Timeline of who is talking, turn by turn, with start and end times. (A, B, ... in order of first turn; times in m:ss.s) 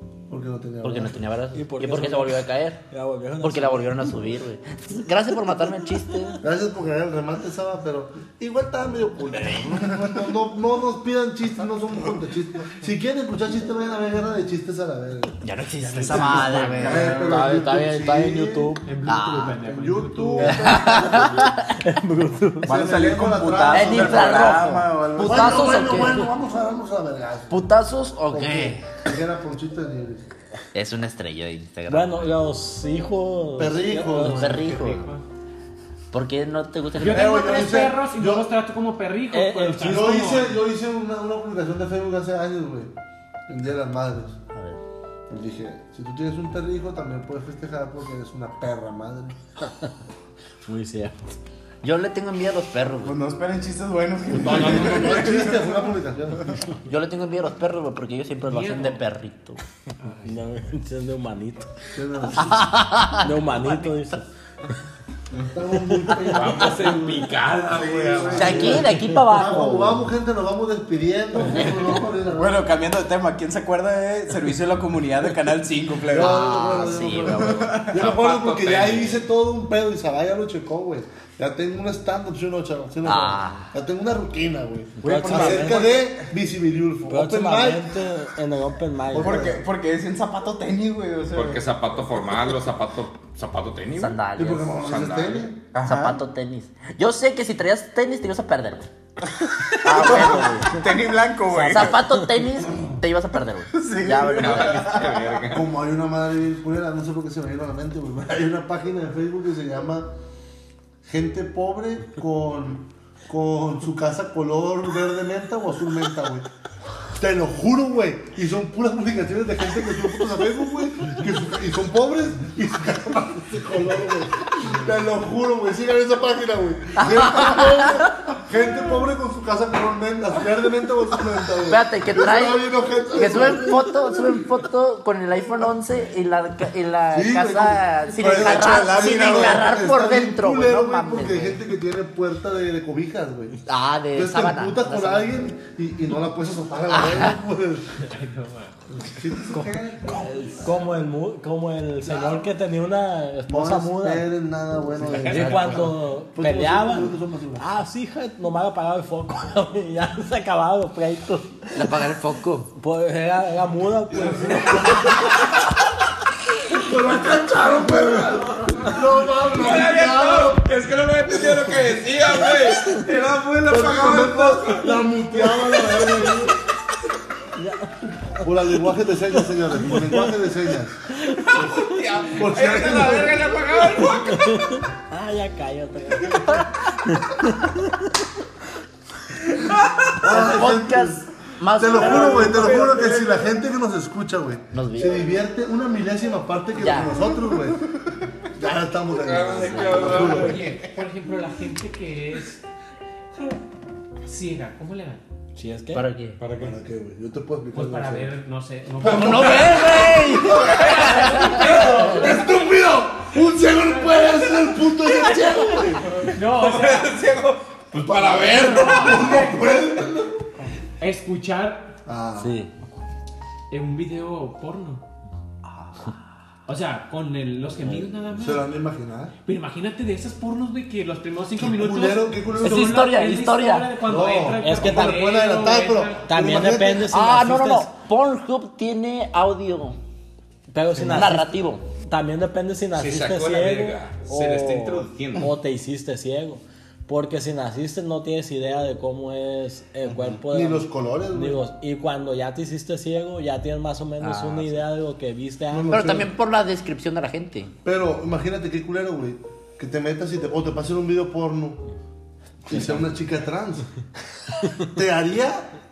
0:00.3-0:01.2 A
0:00.8-0:02.8 B
0:01.5-0:04.2 C
0:03.4-0:06.4 B
0:06.4-0:15.4 A
0:15.4-0:17.2 B
0:15.8-0:17.0 D
0:16.0-0:18.8 A
0:16.8-0:17.3 E
0:17.0-0:18.9 C
0:18.8-0:20.8 D
0:19.1-0:19.6 B
0:19.5-0:21.6 A
0:20.4-0:21.1 C
0:20.4-0:21.8 B
0:21.7-0:22.8 C
0:22.6-0:24.7 A
0:22.6-0:26.0 E
0:23.7-0:26.2 B
0:25.2-0:27.7 A
0:27.5-0:28.8 B
0:28.3-0:30.3 A
0:30.7-0:32.3 B
0:31.9-0:34.7 C
0:33.6-0:35.0 A
0:34.3-0:35.2 D
0:34.3-0:35.0 B
0:36.1-0:37.4 B
0:37.0-0:40.6 D
0:37.0-0:38.5 A
0:39.3-0:40.1 C
0:39.8-0:42.9 A
0:43.5-0:44.4 A
0:44.5-0:44.8 B
0:45.3-0:49.7 A
0:50.6-0:51.1 C
0:51.8-0:53.2 B
0:53.0-0:55.8 E
0:54.4-0:56.5 A
0:54.6-0:54.9 B
0:56.9-0:59.6 B
0:58.5-0:59.0 D
1:00.0-1:00.3 D
1:00.2-1:01.7 C
1:01.9-1:02.7 A
1:02.4-1:04.0 B
1:03.2-1:04.3 C
1:05.5-1:12.6 A
1:05.9-1:06.4 C
1:06.3-1:08.9 F
1:08.4-1:10.0 B
1:11.5-1:11.9 B
1:12.3-1:18.0 E
1:16.1-1:17.8 B
1:16.1-1:28.0 A
1:17.8-1:19.3 F
1:23.0-1:23.7 B
1:25.0-1:26.0 C
1:25.2-1:25.8 E
1:27.1-1:29.5 C
1:29.1-1:29.6 A
1:29.2-1:31.7 E
1:31.4-1:34.2 F
1:34.0-1:34.7 B
1:34.4-1:35.7 A
1:34.7-1:35.5 F
1:35.7-1:36.2 E
1:35.8-1:38.9 B
1:39.4-1:42.0 E
1:39.8-1:40.8 B
1:41.6-1:45.0 B
1:43.7-1:45.4 E
1:44.2-1:45.7 F
1:45.5-1:50.1 A
1:51.0-1:56.5 A
1:57.2-2:14.4 A
2:07.0-2:08.1 B
2:11.7-2:21.6 B
2:17.1-2:23.6 A
2:18.3-2:19.1 E
2:23.7-2:25.3 B
2:24.1-2:28.0 A
2:26.9-2:27.4 B
2:28.0-2:28.8 D
2:29.0-2:30.7 A
2:29.5-2:34.3 C
2:32.0-2:32.4 A
2:33.5-2:37.6 A
2:35.0-2:35.9 D
2:35.1-2:42.0 C
2:41.8-2:42.7 B
2:42.8-2:45.2 C
2:44.5-2:45.3 A
2:46.7-2:50.6 A
2:49.5-2:54.9 F
2:53.6-2:56.6 A
2:57.6-2:58.5 C
2:58.4-3:01.0 A
2:59.8-3:00.3 C
3:01.1-3:02.0 C
3:01.4-3:04.8 F
3:02.3-3:03.6 A
3:04.1-3:08.1 C
3:10.2-3:12.9 B
3:10.2-3:17.9 A
3:11.9-3:13.5 F
3:14.7-3:15.3 B
3:16.8-3:17.2 B
3:18.5-3:20.6 A
3:19.2-3:20.8 F
3:19.5-3:20.3 B
3:19.9-3:22.6 D
3:24.2-3:25.2 D
3:25.6-3:26.0 C
3:25.9-3:26.4 B
3:26.4-3:26.8 F
3:26.6-3:28.3 A
3:27.7-3:30.1 D
3:29.0-3:36.1 A
3:29.0-3:32.2 B
3:31.1-3:32.4 D
3:33.6-3:34.4 D
3:35.6-3:35.8 B
3:36.1-3:39.6 F
3:36.3-3:37.2 D
3:38.0-3:40.4 A
3:38.4-3:39.7 D
3:41.0-3:42.0 D
3:42.1-3:42.6 A
3:42.4-3:42.7 B
3:43.7-3:45.0 D
3:45.6-3:46.2 B
3:46.7-3:48.7 D
3:48.4-3:49.3 A
3:49.5-3:56.2 D
3:51.6-3:53.0 A
3:52.6-3:54.0 B
3:54.0-3:57.2 A
3:54.6-3:55.2 C
3:56.3-3:57.9 C
3:57.1-4:00.0 B
4:00.7-4:16.1 C
4:01.1-4:01.9 B
4:03.0-4:05.5 F
4:10.1-4:11.6 A
4:14.2-4:14.8 B
4:15.7-4:16.3 A
4:15.9-4:17.7 B
4:17.8-4:21.8 A
4:22.7-4:23.9 A
4:24.8-4:25.7 A